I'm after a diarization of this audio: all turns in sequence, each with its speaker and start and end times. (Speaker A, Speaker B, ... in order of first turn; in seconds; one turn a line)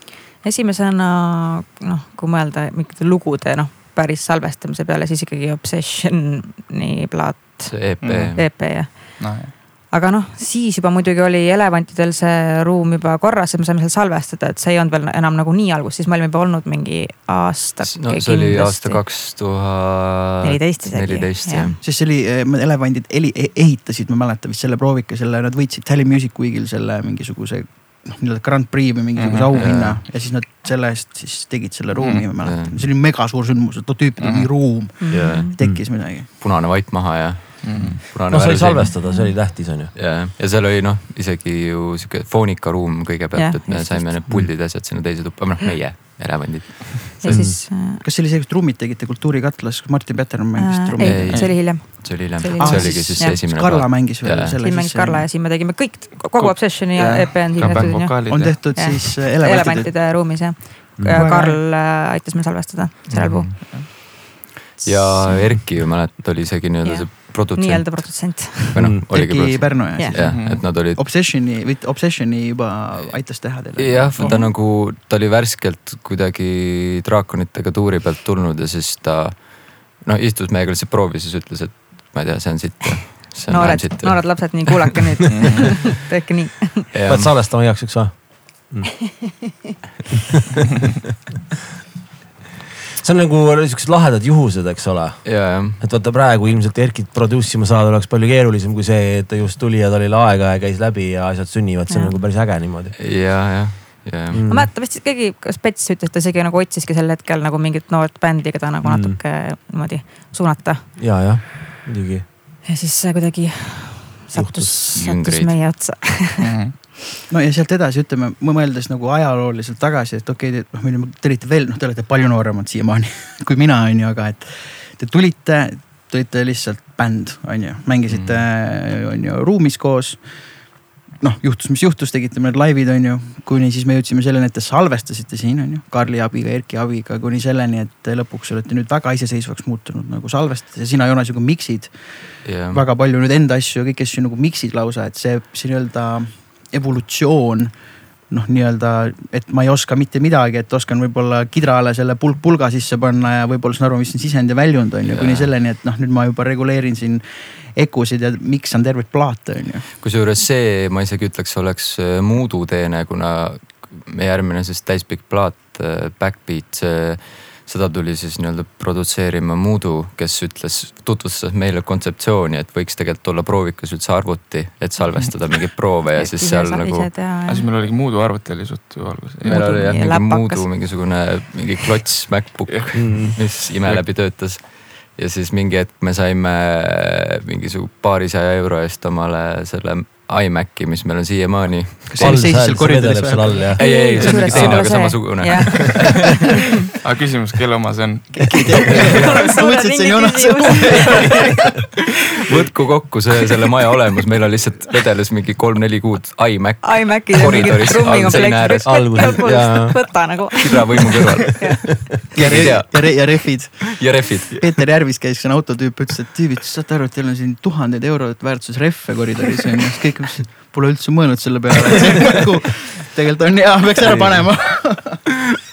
Speaker A: 0.4-19.1
Speaker B: 7.7-8.6
Speaker C: 8.0-8.3
Speaker C: 9.2-9.5
Speaker B: 17.9-21.8
Speaker A: 20.4-21.8
Speaker D: 21.8-36.3
Speaker C: 29.1-29.6
Speaker B: 29.5-30.0
Speaker C: 32.0-32.3
Speaker B: 32.4-32.8
Speaker C: 34.2-34.6
Speaker A: 35.0-35.5
Speaker B: 35.1-35.5
Speaker E: 35.4-35.8
Speaker B: 36.3-47.5
Speaker C: 37.6-38.0
Speaker E: 37.8-39.9
Speaker A: 39.0-39.3
Speaker A: 43.4-44.2
Speaker A: 47.2-48.0
Speaker E: 47.3-47.6
Speaker D: 48.0-51.5
Speaker A: 50.6-53.4
Speaker B: 51.0-54.6
Speaker C: 51.3-51.7
Speaker D: 52.6-55.3
Speaker A: 54.6-63.5
Speaker C: 56.3-58.7
Speaker D: 58.3-60.0
Speaker E: 61.0-61.2
Speaker D: 61.1-61.6
Speaker B: 63.1-63.6
Speaker C: 63.6-63.9
Speaker B: 64.8-71.0
Speaker A: 66.8-68.8
Speaker E: 68.8-69.0
Speaker D: 69.1-74.5
Speaker C: 70.2-70.7
Speaker B: 73.8-84.9
Speaker A: 83.5-86.9
Speaker C: 85.3-85.7
Speaker B: 86.9-87.3
Speaker E: 87.1-89.0
Speaker E: 93.0-103.0
Speaker B: 95.2-95.8
Speaker A: 101.9-102.2
Speaker B: 103.0-104.4
Speaker E: 104.3-104.7
Speaker A: 104.5-110.9
Speaker E: 108.8-109.2
Speaker E: 111.0-112.2
Speaker A: 112.7-116.4
Speaker E: 114.3-114.9
Speaker B: 114.9-115.6
Speaker C: 116.4-116.8
Speaker D: 117.3-159.9
Speaker B: 128.1-128.4
Speaker B: 142.4-142.8
Speaker B: 155.1-155.5
Speaker B: 160.0-177.3
Speaker C: 175.0-175.4
Speaker A: 176.2-177.7
Speaker C: 177.4-180.0
Speaker B: 179.4-192.7
Speaker A: 179.4-180.9
Speaker C: 182.7-184.1
Speaker E: 182.9-183.4
Speaker D: 192.1-193.7
Speaker E: 192.2-195.6
Speaker B: 193.8-196.3
Speaker A: 193.8-196.5
Speaker C: 197.0-199.1
Speaker D: 198.4-201.6
Speaker E: 198.9-199.3
Speaker A: 198.9-201.3
Speaker B: 202.5-214.6
Speaker A: 206.8-212.3
Speaker E: 208.8-210.5
Speaker D: 212.3-225.3
Speaker E: 212.5-212.8
Speaker E: 224.1-224.6